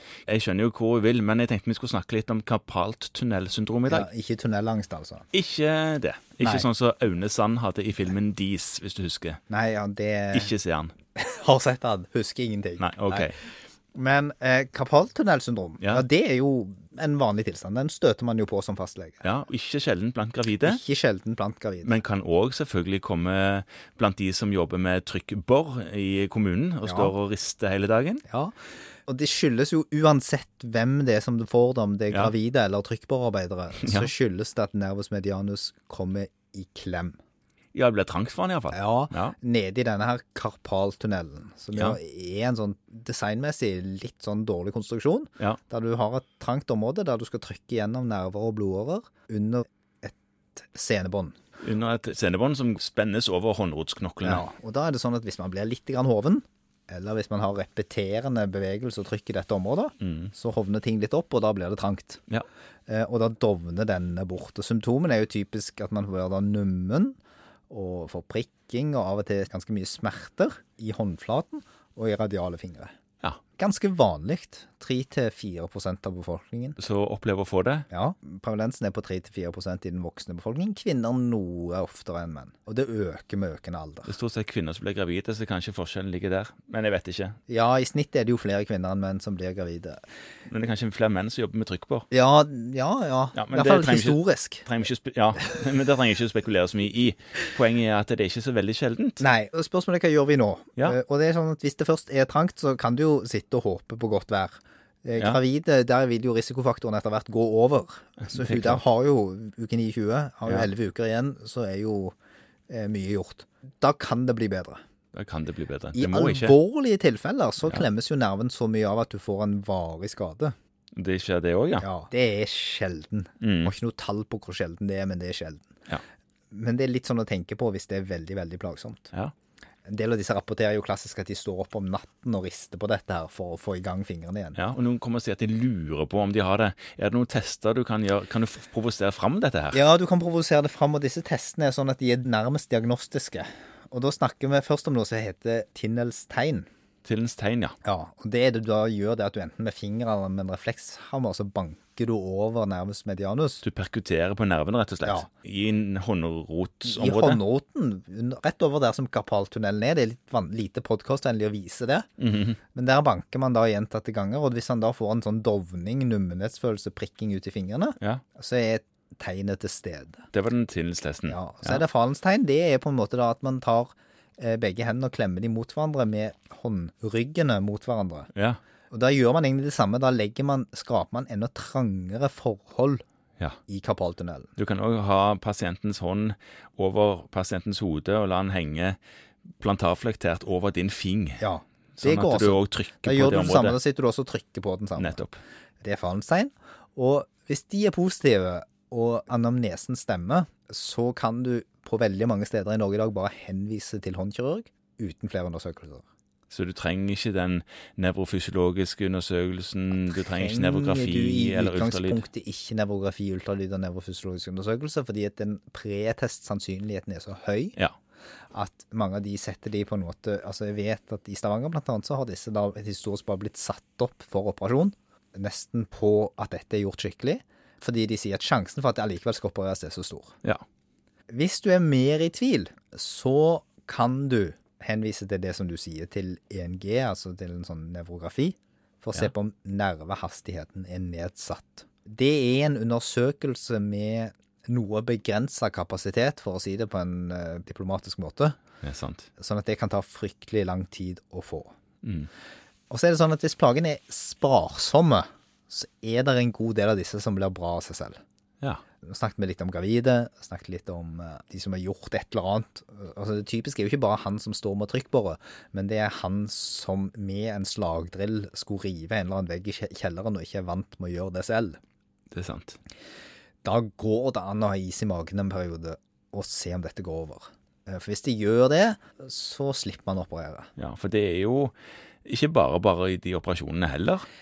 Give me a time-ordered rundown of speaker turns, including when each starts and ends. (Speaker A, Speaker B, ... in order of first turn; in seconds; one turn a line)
Speaker A: 0.2-4.1
Speaker B: 3.9-5.3
Speaker A: 5.3-9.4
Speaker B: 6.4-6.7
Speaker B: 9.5-10.5
Speaker A: 10.3-10.9
Speaker B: 11.2-19.2
Speaker A: 12.8-13.4
Speaker A: 15.8-16.0
Speaker A: 19.2-20.8
Speaker B: 20.6-22.0
Speaker A: 21.8-28.2
Speaker B: 26.8-27.1
Speaker B: 28.3-28.5
Speaker B: 29.1-37.2
Speaker A: 33.8-34.1
Speaker A: 37.7-39.4
Speaker B: 38.7-51.3
Speaker A: 51.6-54.4
Speaker B: 54.2-62.2
Speaker A: 60.0-60.3
Speaker B: 62.9-67.2
Speaker B: 67.7-72.9
Speaker B: 73.6-76.8
Speaker A: 76.8-77.9
Speaker B: 77.9-84.1
Speaker A: 84.0-87.4
Speaker B: 87.5-90.0
Speaker A: 90.5-92.1
Speaker B: 92.1-94.7
Speaker A: 93.3-99.2
Speaker B: 99.2-112.1
Speaker A: 108.2-108.8
Speaker B: 112.7-114.8
Speaker A: 115.1-116.5
Speaker B: 115.9-120.5
Speaker A: 120.9-121.9
Speaker B: 121.8-125.7
Speaker A: 123.4-123.7
Speaker B: 126.5-129.1
Speaker B: 129.8-134.6
Speaker A: 134.5-139.8
Speaker B: 139.7-146.7
Speaker A: 147.0-147.8
Speaker B: 147.8-153.6
Speaker A: 153.6-157.4
Speaker B: 156.8-162.1
Speaker A: 162.2-162.6
Speaker B: 162.7-170.2
Speaker A: 170.3-171.8
Speaker B: 171.3-178.3
Speaker A: 178.3-178.6
Speaker B: 178.9-183.0
Speaker B: 183.7-184.5
Speaker A: 184.6-189.0
Speaker A: 189.6-191.4
Speaker B: 191.4-195.2
Speaker A: 192.0-193.8
Speaker A: 195.0-195.4
Speaker B: 195.8-206.0
Speaker A: 206.5-212.2
Speaker B: 210.1-217.8
Speaker B: 218.5-230.3
Speaker B: 231.3-248.6
Speaker A: 248.8-249.3
Speaker B: 249.4-251.7
Speaker A: 252.0-252.3
Speaker B: 252.9-258.2
Speaker B: 259.0-271.8
Speaker A: 272.3-272.8
Speaker B: 273.6-280.7
Speaker A: 280.8-281.7
Speaker A: 282.2-284.2